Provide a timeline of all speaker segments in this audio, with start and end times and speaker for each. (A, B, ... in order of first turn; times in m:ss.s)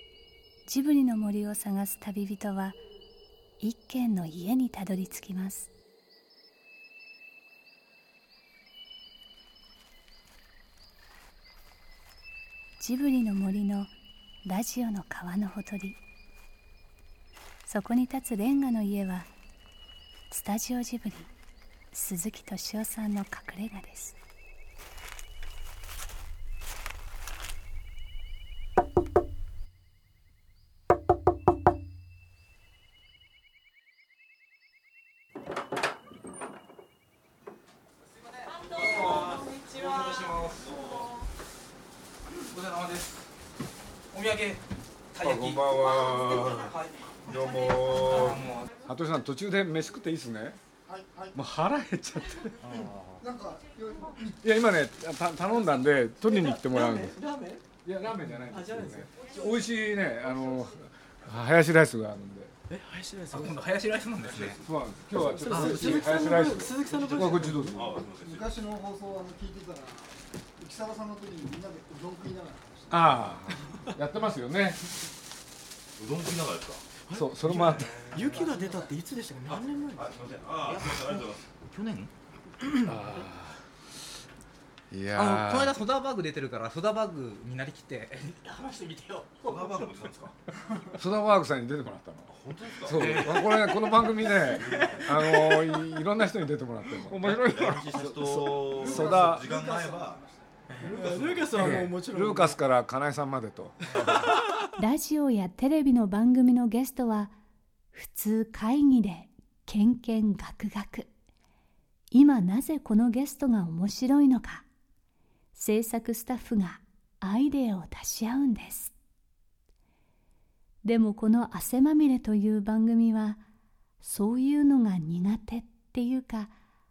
0:00.7-0:02.8 A
0:03.6-0:05.7 A
0:12.8-0:13.9 A
0:14.4-0:16.0 A
0:17.6-0:19.3 A
0:20.3-0:21.3 A
0:21.9-0:24.2 A
0:38.4-0:41.1 B
0:40.6-0:41.0 C
0:42.5-0:43.3 B
0:44.1-0:44.6 B
0:45.1-0:46.8 B
0:45.2-0:50.6 D
0:47.8-0:48.7 B
0:50.8-0:51.4 E
0:51.3-0:52.6 D
0:52.6-0:53.2 B
0:53.2-0:54.4 E
0:54.4-0:57.2 D
0:56.3-0:57.6 F
0:57.8-1:02.5 D
0:58.5-0:59.1 F
1:02.7-1:03.7 F
1:03.3-1:04.6 B
1:04.4-1:08.0 D
1:05.1-1:07.8 F
1:06.9-1:08.6 C
1:08.1-1:13.2 E
1:12.9-1:14.9 D
1:16.0-1:16.9 C
1:17.0-1:20.1 F
1:17.1-1:18.0 D
1:17.4-1:18.4 C
1:19.5-1:21.5 C
1:20.7-1:22.1 B
1:22.8-1:23.6 D
1:24.9-1:25.8 D
1:25.1-1:29.9 B
1:29.4-1:30.3 C
1:30.9-1:38.1 D
1:32.3-1:33.4 C
1:33.0-1:33.8 B
1:34.3-1:35.2 C
1:37.2-1:40.2 C
1:38.1-1:38.7 F
1:38.8-1:39.5 D
1:38.9-1:40.4 E
1:40.8-1:42.6 F
1:40.8-1:41.8 C
1:41.6-1:44.1 D
1:44.0-1:44.6 F
1:44.8-1:47.3 A
1:47.9-1:51.1 A
1:52.1-1:54.6 A
1:55.5-1:58.9 A
2:00.8-2:03.4 A
2:04.0-2:06.5 A